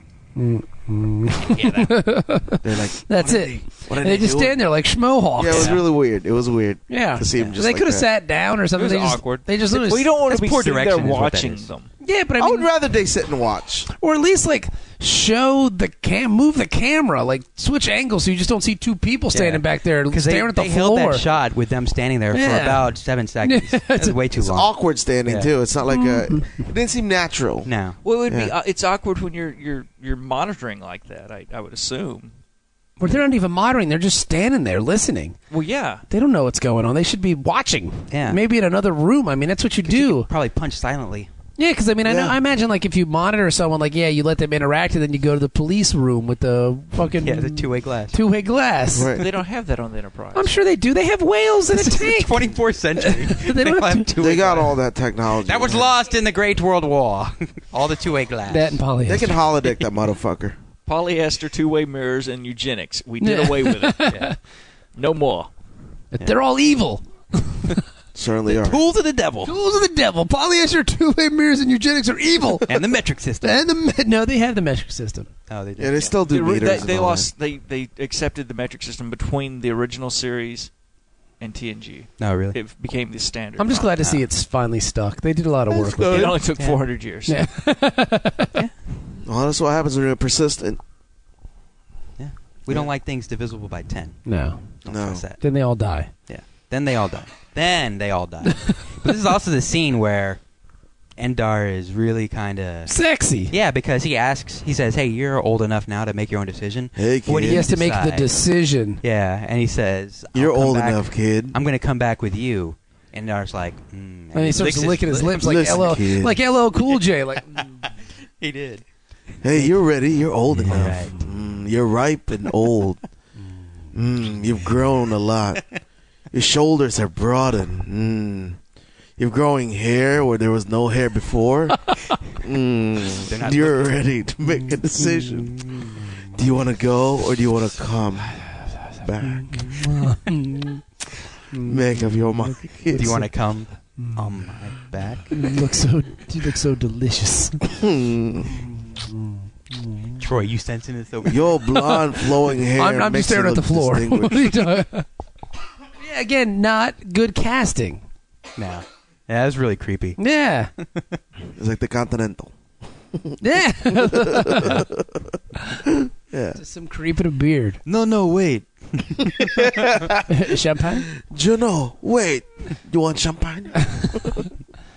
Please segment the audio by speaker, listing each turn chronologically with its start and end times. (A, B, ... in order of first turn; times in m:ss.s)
0:00.4-0:05.8 A
0:01.4-0:02.0 B
0:02.6-0:04.6 C
0:05.4-0:08.1 C
0:05.5-0:05.8 B
0:06.9-0:10.1 A
0:08.8-0:11.9 D
0:10.2-0:11.7 B
0:12.0-0:12.7 A
0:12.4-0:13.9 C
0:13.9-0:21.2 A
0:19.3-0:24.7 B
0:22.3-0:24.2 A
0:24.4-0:27.7 C
0:25.3-0:25.5 B
0:25.9-0:26.6 A
0:27.6-0:28.0 B
0:28.0-0:32.3 D
0:28.3-0:28.5 C
0:33.0-0:35.4 A
0:35.5-0:36.0 D
0:36.1-0:40.3 A
0:38.1-0:38.4 B
0:39.8-0:41.3 B
0:41.6-0:49.2 A
0:42.0-0:42.4 C
0:47.2-0:48.2 B
0:48.9-0:49.3 C
0:49.2-0:50.6 D
0:50.4-0:54.1 A
0:51.7-0:54.8 B
0:54.2-0:55.9 C
0:55.4-0:58.8 B
0:58.5-0:59.4 A
0:59.1-1:00.6 C
1:00.9-1:04.3 D
1:03.2-1:04.4 A
1:05.0-1:05.5 D
1:06.1-1:07.8 A
1:08.2-1:08.8 C
1:08.5-1:09.5 B
1:09.4-1:12.9 A
1:12.7-1:13.6 B
1:13.4-1:15.3 A
1:15.5-1:16.9 B
1:15.8-1:17.3 C
1:16.0-1:20.7 D
1:21.4-1:24.0 D
1:22.2-1:22.6 B
1:23.6-1:26.4 A
1:24.0-1:24.2 B
1:25.7-1:26.4 C
1:26.0-1:27.4 D
1:27.3-1:28.5 A
1:29.2-1:30.8 C
1:32.2-1:35.4 B
1:34.3-1:34.6 A
1:34.9-1:35.2 C
1:35.4-1:36.1 A
1:36.3-1:40.4 B
1:41.2-1:43.0 B
1:42.9-1:43.5 A
1:43.5-1:48.4 B
1:47.0-1:47.6 C
1:47.4-1:49.0 A
1:49.0-1:56.0 B
1:50.3-1:51.6 C
1:54.3-1:57.8 A
1:55.4-1:56.4 C
1:58.4-1:58.8 B
1:59.4-2:03.0 C
2:00.6-2:01.2 B
2:00.6-2:01.3 A
2:03.9-2:05.6 C
2:06.3-2:08.6 C
2:09.2-2:11.8 C
2:12.3-2:15.6 C
2:13.1-2:13.9 B
2:15.4-2:16.1 B
2:16.3-2:18.5 C
2:19.0-2:19.8 C
2:19.2-2:20.8 A
2:21.5-2:23.3 A
2:21.6-2:23.2 C
2:22.9-2:25.4 B
2:24.0-2:24.6 A
2:25.3-2:27.7 A
2:27.8-2:28.5 C
2:28.5-2:30.2 A
2:30.2-2:31.5 B
2:31.2-2:34.6 C
2:32.7-2:35.1 A
2:36.0-2:38.0 A
2:38.6-2:40.2 B
2:40.2-2:40.7 A
2:40.8-2:41.2 B
2:41.6-2:42.5 C
2:43.1-2:43.4 C
2:43.4-2:44.8 A
2:43.9-2:45.3 C
2:45.9-2:46.6 C
2:46.6-2:47.8 A
2:47.8-2:50.0 B
2:49.4-2:50.3 C
2:50.3-2:51.1 A
2:51.2-2:54.4 C